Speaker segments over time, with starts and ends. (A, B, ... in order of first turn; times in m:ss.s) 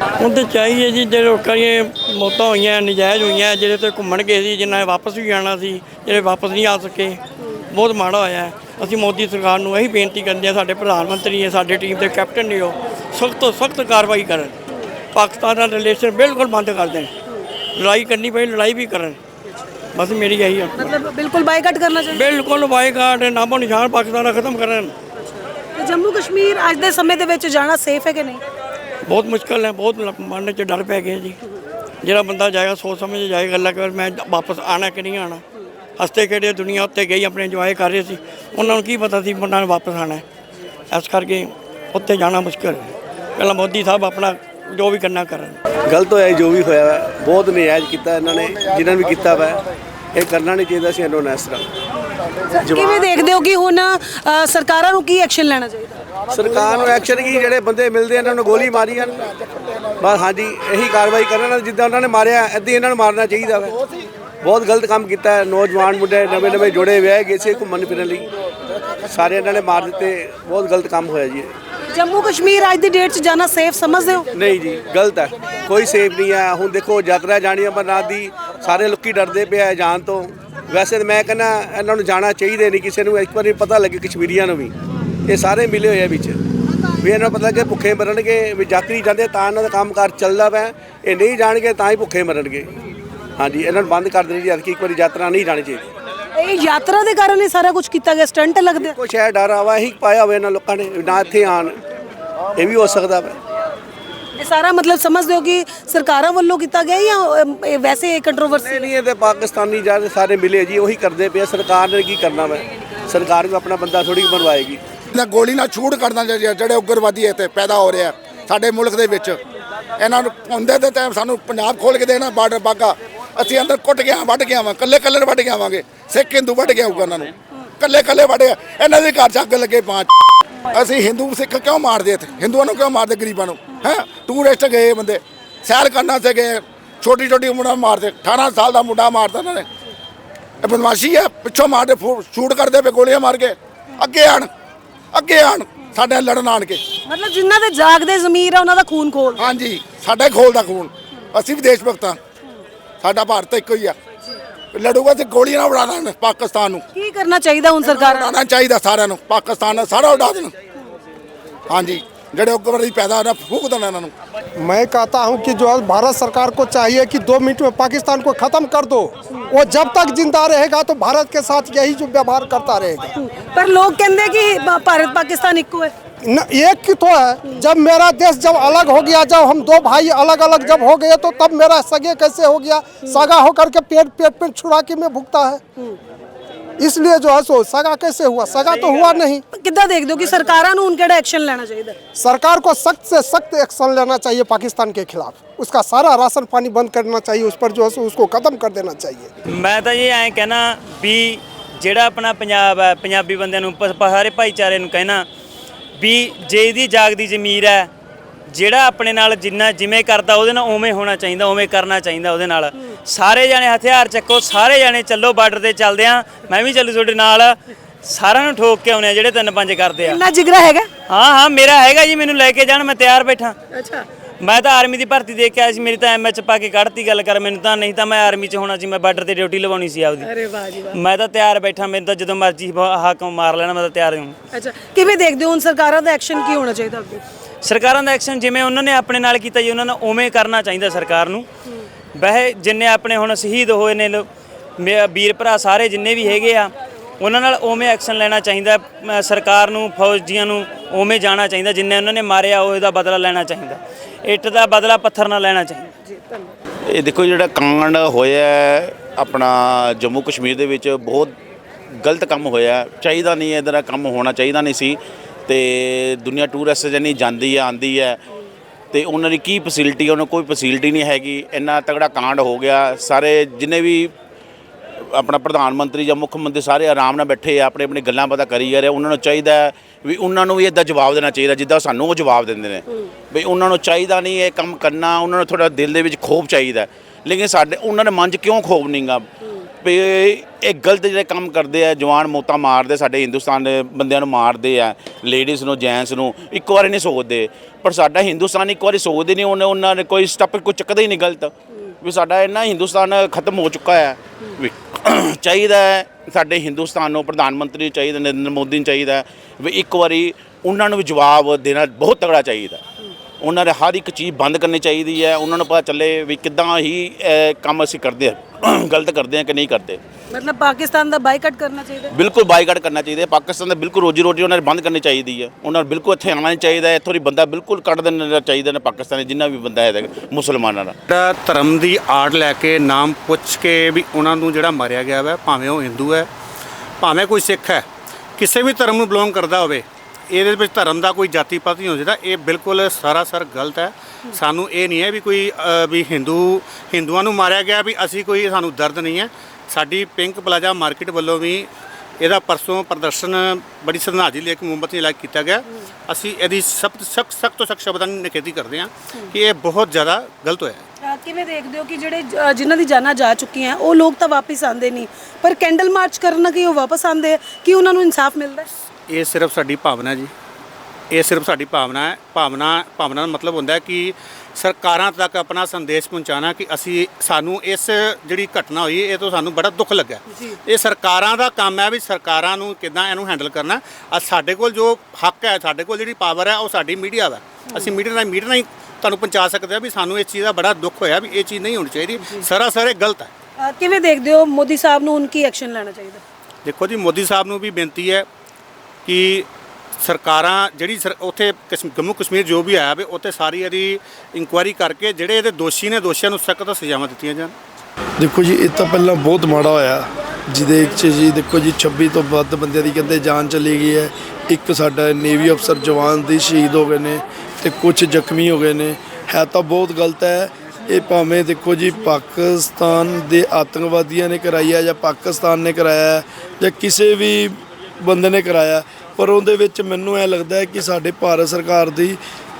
0:00.2-0:14.5 A
0:15.1-0:17.1 A
0:17.8-0:19.2 A
0:19.9-0:20.9 A
0:20.8-0:22.3 B
0:22.1-0:24.9 A
0:25.2-0:28.4 B
0:29.0-0:31.4 A
0:32.0-0:35.4 A
0:36.0-0:40.2 A
0:40.9-0:45.6 A
0:45.8-0:49.6 C
0:50.1-0:51.6 C
0:52.5-0:56.0 B
0:52.6-0:53.0 C
0:56.3-0:59.2 C
1:00.0-1:03.8 C
1:04.4-1:08.3 C
1:09.1-1:11.5 C
1:11.9-1:14.3 B
1:14.3-1:24.7 C
1:25.3-1:26.4 C
1:27.0-1:32.7 C
1:33.4-1:35.9 C
1:36.3-1:38.9 B
1:38.8-1:41.8 C
1:42.6-1:43.4 C
1:44.3-1:48.9 B
1:48.6-1:54.8 C
1:55.1-1:59.4 D
2:00.0-2:10.1 D
2:10.7-2:19.6 D
2:20.6-2:24.5 D
2:25.1-2:26.8 D
2:27.0-2:29.4 B
2:29.4-2:32.2 D
2:33.0-2:33.9 D
2:34.7-2:36.8 D
2:36.9-2:38.3 B
2:37.8-2:40.5 D
2:41.7-2:44.1 D
2:44.6-2:53.1 E
2:53.2-2:55.9 B
2:56.2-3:05.6 E
3:03.0-3:03.3 B
3:06.8-3:09.4 E
3:08.7-3:12.0 B
3:12.2-3:19.3 E
3:19.5-3:25.2 F
3:26.0-3:27.9 F
3:28.5-3:40.2 F
3:40.0-3:40.9 B
3:41.1-3:43.6 F
3:43.7-3:44.0 B
3:44.4-3:50.3 F
3:50.2-3:51.0 B
3:50.9-3:54.4 F
3:54.5-3:57.2 B
3:57.6-4:01.5 F
4:02.2-4:04.3 F
4:04.8-4:16.0 F
4:16.1-4:16.5 B
4:16.9-4:21.3 G
4:22.0-4:28.2 G
4:28.9-4:34.1 G
4:35.0-4:49.3 G
4:49.8-5:12.8 G
5:13.4-5:20.0 G
5:20.3-5:22.1 B
5:22.1-5:31.0 G
5:31.1-5:36.3 H
5:37.0-5:37.8 H
5:38.4-5:51.7 H
5:52.2-6:00.8 H
6:01.0-6:08.7 B
6:09.1-6:10.3 H
6:11.1-6:33.3 H
6:20.3-6:20.6 B
6:32.2-6:32.4 B
6:33.6-6:36.2 B
6:36.6-6:38.2 H
6:39.0-6:39.5 H
6:40.0-6:47.5 H
6:48.2-7:12.2 I